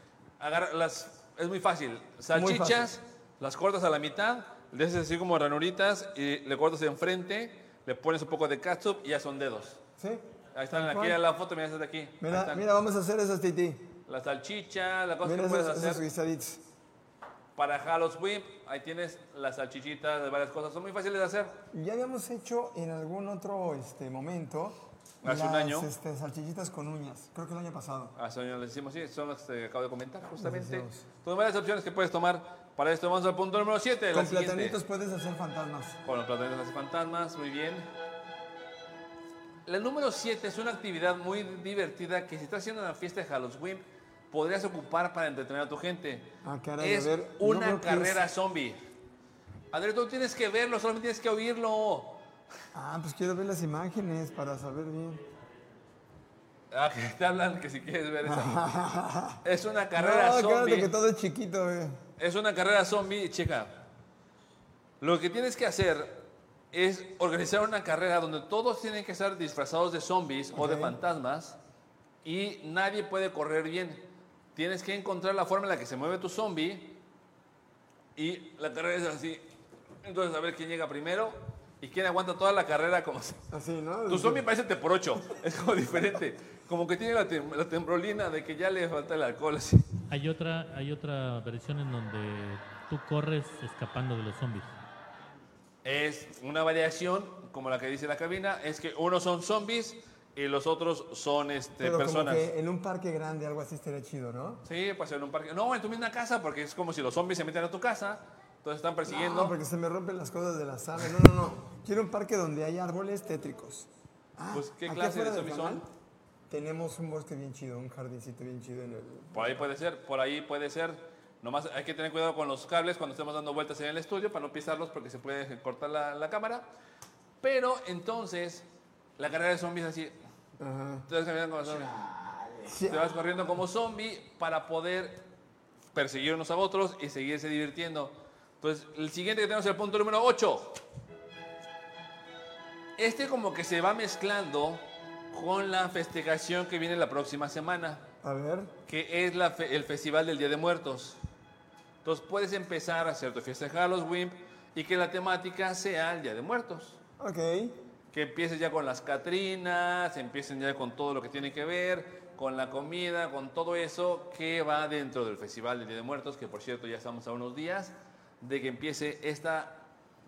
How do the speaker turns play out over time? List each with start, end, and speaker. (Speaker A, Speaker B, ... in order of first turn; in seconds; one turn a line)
Speaker A: 0.4-9.8
Speaker B: 2.3-2.9
Speaker B: 10.0-11.2
Speaker A: 10.5-12.6
Speaker B: 12.2-13.9
Speaker A: 14.1-16.0
Speaker B: 15.2-16.6
Speaker A: 17.6-21.6
Speaker B: 21.7-28.1
Speaker A: 25.2-25.9
Speaker A: 28.1-34.8
Speaker B: 30.4-31.0
Speaker B: 34.1-36.0
Speaker A: 36.0-37.9
Speaker A: 39.6-48.8
Speaker B: 46.4-48.2
Speaker A: 49.7-52.2
Speaker B: 52.7-55.2
Speaker A: 56.7-58.6
Speaker B: 58.2-59.4
Speaker A: 59.4-60.9
Speaker B: 59.9-62.0
Speaker A: 62.2-63.8
Speaker A: 65.0-71.6
Speaker B: 70.5-71.0
Speaker A: 72.2-74.0
Speaker A: 74.5-77.0
Speaker A: 78.2-79.4
Speaker A: 80.0-83.5
Speaker B: 83.5-84.5
Speaker A: 84.1-89.9
Speaker C: 90.1-94.7
Speaker A: 95.8-102.5
Speaker B: 101.8-104.6
Speaker A: 104.6-109.6
Speaker B: 109.0-115.8
Speaker A: 114.5-115.8
Speaker B: 116.5-119.6
Speaker A: 119.3-126.7
Speaker A: 127.4-128.7
Speaker A: 129.2-130.2
Speaker B: 130.6-131.1
Speaker A: 131.1-132.1
Speaker B: 132.6-133.1
Speaker A: 132.8-135.2
Speaker A: 135.9-140.8
Speaker A: 143.0-148.1
Speaker B: 148.2-148.7
Speaker A: 148.9-151.2
Speaker A: 152.0-157.0
Speaker B: 157.2-157.8
Speaker A: 158.1-169.8